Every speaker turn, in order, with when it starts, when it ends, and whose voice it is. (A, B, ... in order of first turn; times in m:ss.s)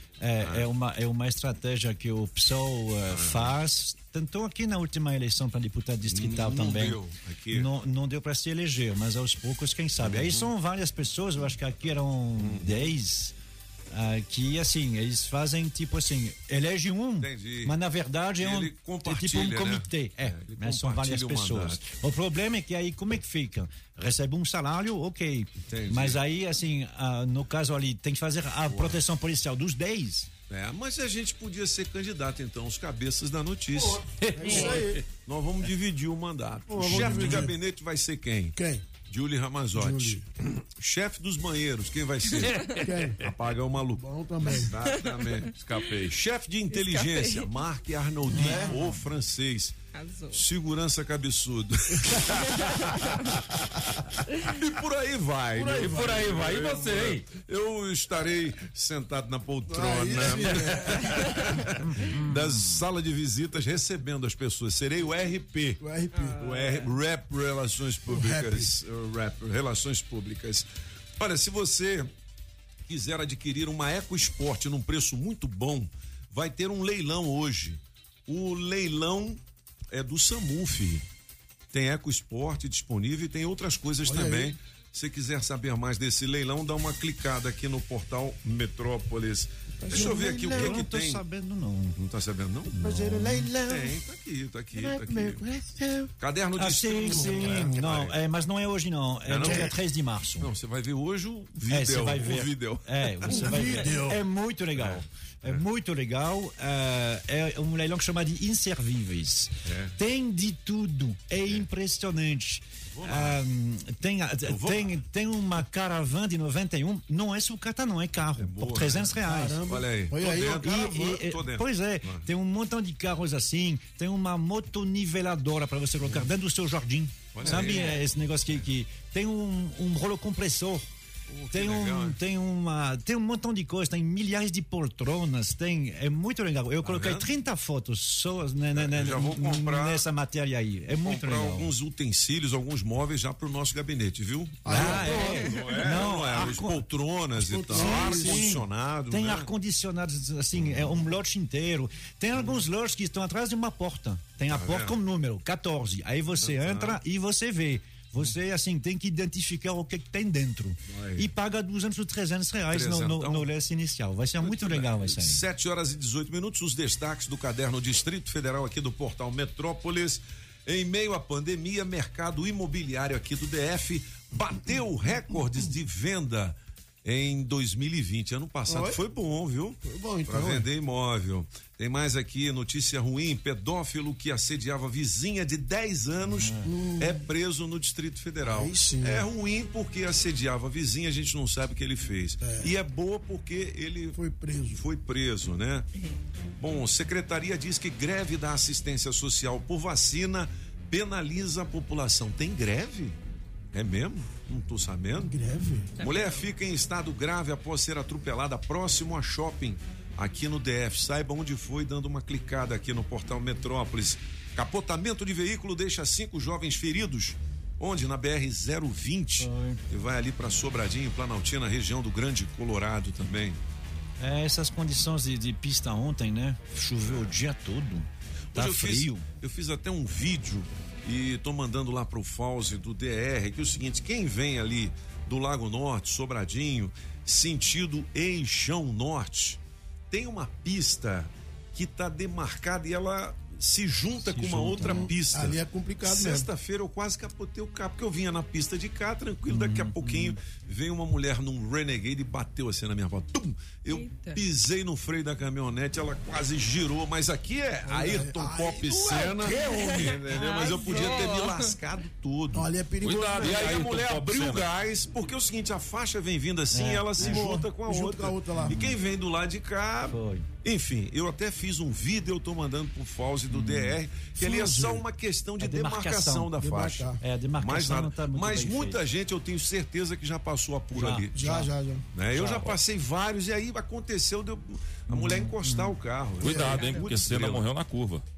0:00.2-0:07.0 A
0:00.4-0:00.7 B
0:03.1-0:03.5 B
0:06.1-0:07.7 B
0:07.5-0:13.3 A
0:10.0-0:10.5 B
0:12.4-0:12.9 B
0:13.9-0:30.3 A
0:17.2-0:17.7 B
0:18.4-0:21.8 B
0:25.7-0:26.2 B
0:28.7-0:29.0 B
0:30.5-0:40.2 B
0:33.8-0:35.0 C
0:34.4-0:34.9 D
0:36.7-0:37.5 C
0:37.0-0:37.5 A
0:38.5-0:38.9 C
0:39.7-0:40.2 C
0:40.8-0:45.5 B
0:42.8-0:43.2 C
0:44.0-0:44.7 C
0:44.8-0:45.3 E
0:45.6-0:46.2 D
0:46.1-0:49.8 B
0:46.7-0:47.5 E
0:48.4-0:48.7 C
0:49.9-0:50.5 E
0:50.3-0:53.4 B
0:52.6-0:52.8 E
0:54.4-1:05.8 B
0:55.6-0:57.3 D
0:59.7-1:01.1 C
1:02.1-1:02.6 A
1:05.8-1:06.4 C
1:06.1-1:06.7 E
1:06.4-1:10.6 B
1:08.1-1:08.7 C
1:11.2-1:12.1 B
1:12.9-1:19.4 B
1:19.9-1:21.0 B
1:21.7-1:31.2 B
1:24.0-1:24.5 C
1:29.8-1:30.8 C
1:29.9-1:32.0 A
1:32.0-1:35.4 B
1:32.8-1:33.7 A
1:33.0-1:33.5 C
1:34.8-1:36.0 A
1:36.2-1:38.1 B
1:36.6-1:40.5 A
1:37.0-1:37.8 C
1:39.3-1:39.7 B
1:39.4-1:39.7 C
1:40.4-1:43.7 B
1:41.7-1:59.6 A
1:43.2-1:44.2 C
1:44.8-1:45.6 B
1:49.6-1:49.9 B
1:52.9-1:53.4 B
1:54.5-1:54.9 B
1:58.4-2:02.2 B
1:59.2-2:00.6 C
2:00.5-2:10.9 A
2:07.3-2:08.0 B
2:07.5-2:07.8 C
2:11.3-2:12.2 B
2:11.5-2:21.7 A
2:16.8-2:17.3 B
2:18.7-2:20.0 B
2:21.0-2:29.5 B
2:24.6-2:25.4 C
2:24.7-2:26.8 A
2:27.4-2:28.5 C
2:27.7-2:45.4 A
2:34.5-2:34.9 B
2:36.4-2:37.0 B
2:40.9-2:41.3 B
2:42.7-2:43.4 B
2:44.4-3:14.2 B
2:58.7-2:59.0 C
2:59.8-3:00.6 C
3:06.4-3:06.7 A
3:06.6-3:07.2 C
3:08.5-3:09.3 C
3:12.4-3:12.7 C
3:14.1-3:14.8 C
3:14.7-3:15.9 B
3:16.6-3:23.2 B
3:23.7-3:25.4 B
3:25.3-3:25.9 C
3:26.0-3:26.4 E
3:26.0-3:43.6 B
3:39.4-3:39.8 A
3:44.2-3:49.2 A
3:47.0-3:47.3 B
3:48.5-3:59.6 B
4:00.1-4:22.7 B
4:04.2-4:05.1 A
4:04.8-4:06.5 C
4:09.5-4:10.4 A
4:13.9-4:14.4 E
4:17.9-4:20.1 C
4:19.5-4:21.7 E
4:22.5-4:23.8 C
4:23.0-4:24.7 D
4:23.4-4:41.3 B
4:26.7-4:27.4 A
4:27.1-4:28.8 C
4:28.6-4:29.0 A
4:30.1-4:30.4 A
4:33.5-4:34.0 A
4:34.4-4:35.0 C
4:35.6-4:36.5 A
4:36.6-4:37.2 C
4:37.2-4:39.0 A
4:40.9-4:41.7 A
4:41.3-4:42.0 C
4:42.1-4:47.7 B
4:42.3-4:42.8 A
4:45.1-4:46.0 A
4:46.4-4:48.2 D
4:46.7-4:47.2 E